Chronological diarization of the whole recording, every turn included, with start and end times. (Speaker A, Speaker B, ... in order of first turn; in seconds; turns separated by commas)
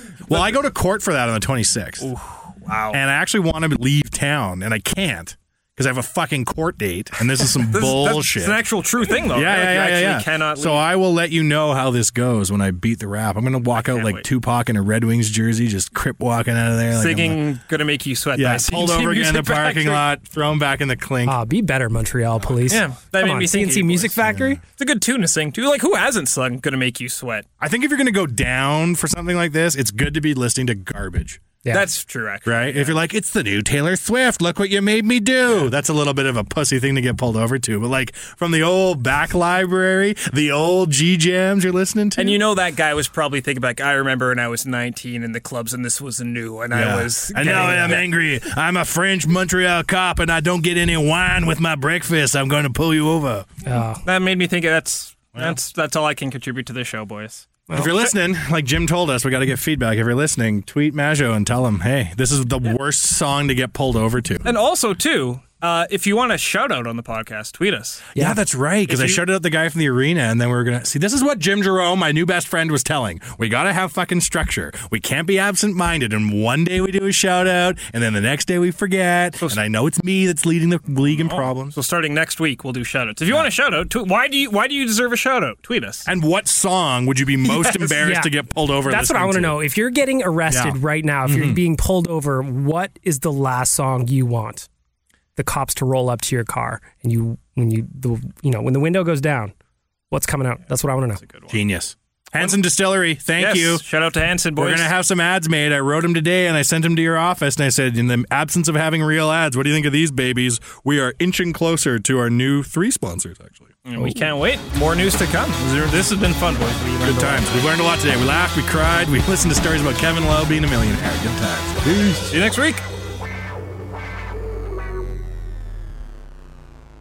Speaker A: 0.3-2.1, Speaker B: 2.0-3.0, Speaker A: 2.9-8.6, Speaker B: 7.7-10.8, Speaker A: 9.3-17.4, Speaker B: 13.7-14.2, Speaker B: 16.9-20.1, Speaker A: 18.4-21.4, Speaker C: 21.2-24.6, Speaker B: 22.7-24.2, Speaker A: 24.2-24.6, Speaker B: 24.7-27.4, Speaker A: 27.6-31.4, Speaker B: 31.7-33.0, Speaker A: 32.4-42.4, Speaker B: 42.2-48.1, Speaker A: 46.7-53.5, Speaker C: 47.5-48.0, Speaker C: 53.6-54.0, Speaker B: 54.0-57.5, Speaker A: 57.7-64.5, Speaker B: 64.4-68.1, Speaker C: 68.1-68.4, Speaker A: 68.2-81.8, Speaker B: 68.9-69.2, Speaker B: 81.0-86.1, Speaker A: 86.0-89.6, Speaker B: 87.5-87.9, Speaker C: 88.0-88.3, Speaker C: 88.8-94.7, Speaker A: 90.5-91.6, Speaker C: 95.3-99.5, Speaker C: 100.1-101.2, Speaker B: 101.2-101.6, Speaker A: 101.5-103.8, Speaker B: 103.4-104.9, Speaker A: 104.5-113.8, Speaker B: 113.8-117.7, Speaker A: 117.0-122.4, Speaker B: 122.3-122.8